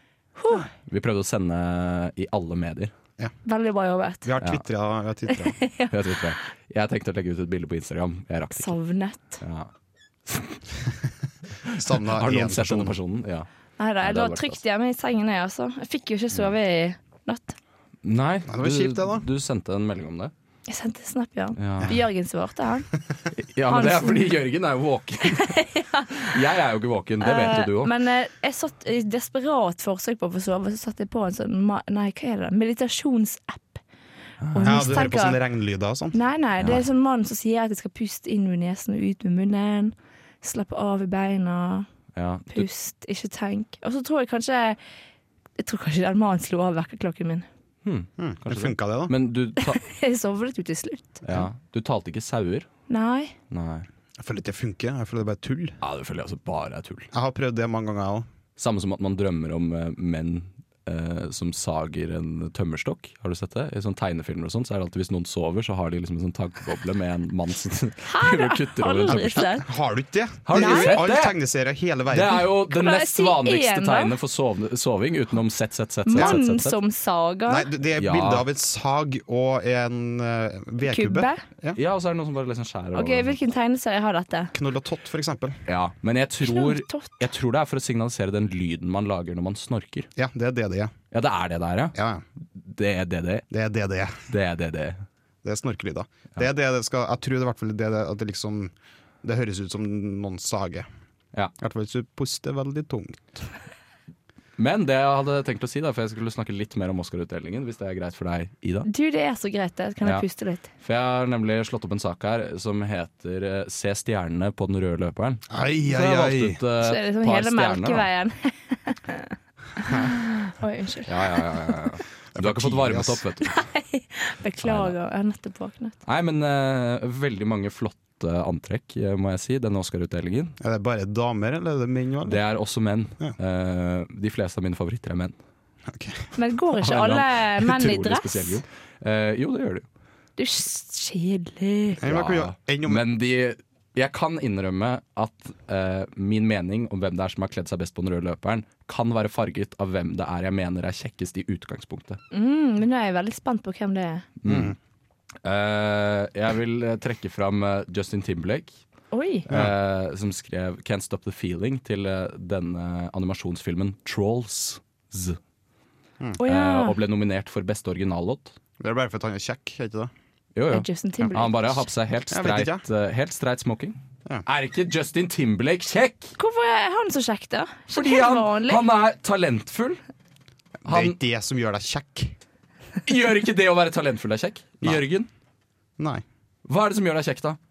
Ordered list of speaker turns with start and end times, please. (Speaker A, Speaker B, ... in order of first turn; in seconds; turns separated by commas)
Speaker A: 0.4-0.7, Speaker B: 0.8-2.9, Speaker A: 3.4-4.3, Speaker C: 4.2-5.6, Speaker A: 5.3-6.0, Speaker B: 5.9-8.8, Speaker A: 8.5-9.4, Speaker B: 9.4-9.7, Speaker B: 10.3-10.6, Speaker B: 11.6-13.5, Speaker C: 11.7-13.0, Speaker A: 13.8-17.6, Speaker B: 14.0-14.6, Speaker B: 18.0-20.3, Speaker C: 18.5-19.3, Speaker A: 20.7-22.9, Speaker B: 21.6-22.0, Speaker B: 23.3-27.9, Speaker A: 23.6-24.4, Speaker A: 25.2-26.4, Speaker A: 27.2-33.8, Speaker B: 34.4-35.1, Speaker A: 34.5-35.4, Speaker C: 34.6-36.2, Speaker A: 36.1-41.9, Speaker B: 42.1-42.7, Speaker A: 42.5-44.8, Speaker A: 45.6-47.5, Speaker B: 47.8-49.8, Speaker C: 48.2-49.1, Speaker A: 49.6-51.2, Speaker B: 51.2-52.7, Speaker A: 52.9-53.4, Speaker B: 53.5-53.9, Speaker C: 54.2-55.8, Speaker B: 55.8-57.1, Speaker C: 57.1-58.3, Speaker B: 58.6-69.6, Speaker A: 68.0-69.7, Speaker C: 69.4-72.5, Speaker B: 70.4-71.4, Speaker A: 70.5-71.0, Speaker B: 72.1-76.8, Speaker A: 72.5-74.1, Speaker A: 76.0-77.7, Speaker C: 77.5-81.8, Speaker B: 78.0-78.5, Speaker A: 80.8-81.4, Speaker B: 81.7-83.4, Speaker A: 82.9-84.5, Speaker C: 84.5-85.6, Speaker B: 85.7-90.1, Speaker A: 86.4-87.2, Speaker C: 90.2-90.9, Speaker B: 91.1-92.0, Speaker C: 91.9-92.2, Speaker B: 92.5-93.5, Speaker C: 93.5-94.3, Speaker B: 94.3-95.0, Speaker C: 95.4-100.9, Speaker C: 101.6-103.5, Speaker B: 104.6-108.9, Speaker A: 108.8-110.7, Speaker B: 110.0-110.3, Speaker B: 110.8-118.1, Speaker C: 115.5-116.6, Speaker A: 116.8-119.2, Speaker A: 119.8-121.4, Speaker B: 121.0-123.6, Speaker C: 122.3-123.2, Speaker A: 123.4-126.0, Speaker B: 124.6-124.9, Speaker B: 126.0-130.6, Speaker C: 130.6-132.4, Speaker B: 132.3-135.4, Speaker C: 135.9-136.3, Speaker A: 136.4-138.6, Speaker B: 136.8-139.9, Speaker A: 140.4-142.0, Speaker C: 142.0-143.0, Speaker B: 142.0-152.2, Speaker A: 152.3-154.3, Speaker B: 154.4-154.8, Speaker C: 154.4-154.8, Speaker B: 155.4-158.8, Speaker A: 159.1-159.4, Speaker B: 159.4-165.4, Speaker A: 166.4-167.0, Speaker B: 166.4-168.6, Speaker C: 168.8-170.1, Speaker B: 170.6-176.3, Speaker A: 170.7-171.9, Speaker C: 172.3-172.8, Speaker A: 176.4-178.8, Speaker B: 177.9-180.0, Speaker C: 180.8-182.4, Speaker B: 180.9-181.2, Speaker B: 183.1-185.3, Speaker C: 186.0-186.2, Speaker B: 186.7-187.6